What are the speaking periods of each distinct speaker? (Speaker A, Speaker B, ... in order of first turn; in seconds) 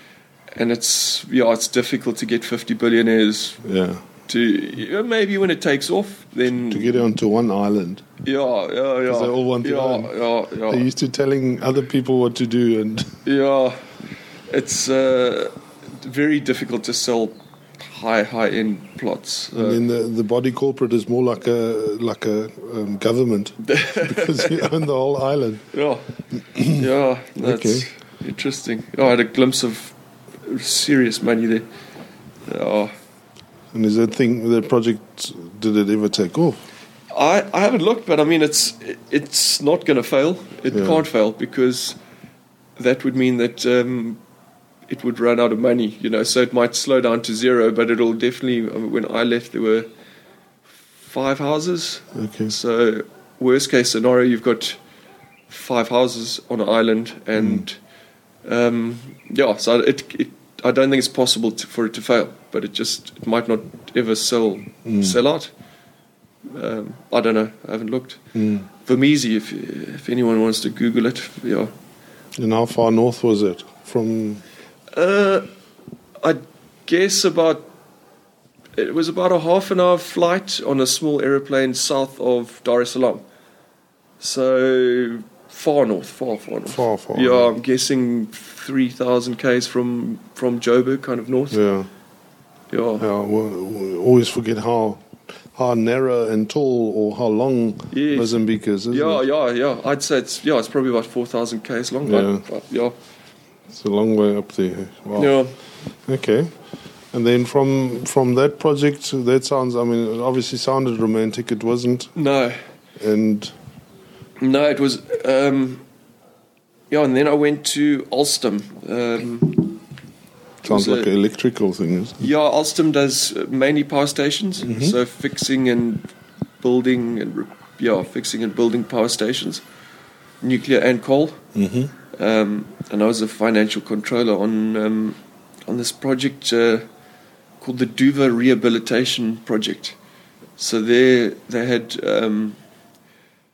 Speaker A: 0.5-3.6, 4.3-7.0, 8.2-10.9, 13.2-13.8, 14.5-19.8, 23.6-24.7, 25.7-31.6, 32.5-32.9, 37.1-42.0, 42.8-44.2, 44.9-49.9, 51.0-54.8, 55.5-57.8, 58.5-65.5, 66.5-68.2, 68.8-71.7, 74.9-75.5, 76.2-77.7, 78.8-83.2, 84.2-91.6, 92.7-93.1, 97.9-103.0, 105.2-105.5, 112.2-112.6, 114.4-115.8, 116.9-119.8, 120.6-121.1, 122.2-126.1, 126.6-129.6, 130.4-131.4, 132.1-135.2, 135.7-136.9, 137.6-140.0, 140.6-142.6
Speaker B: 3.6-4.0, 6.5-8.0, 9.1-10.1, 10.7-13.2, 19.6-25.7, 26.6-26.8, 27.4-27.9, 33.7-36.6, 40.7-41.0, 52.1-52.5, 57.4-57.6, 64.8-65.2, 68.3-68.7, 72.4-74.4, 86.7-87.5, 91.5-91.9, 93.0-99.2, 102.0-102.4, 103.7-105.3, 106.1-106.5, 107.1-112.1, 113.0-113.5, 120.6-122.2, 124.6-125.0, 131.6-131.9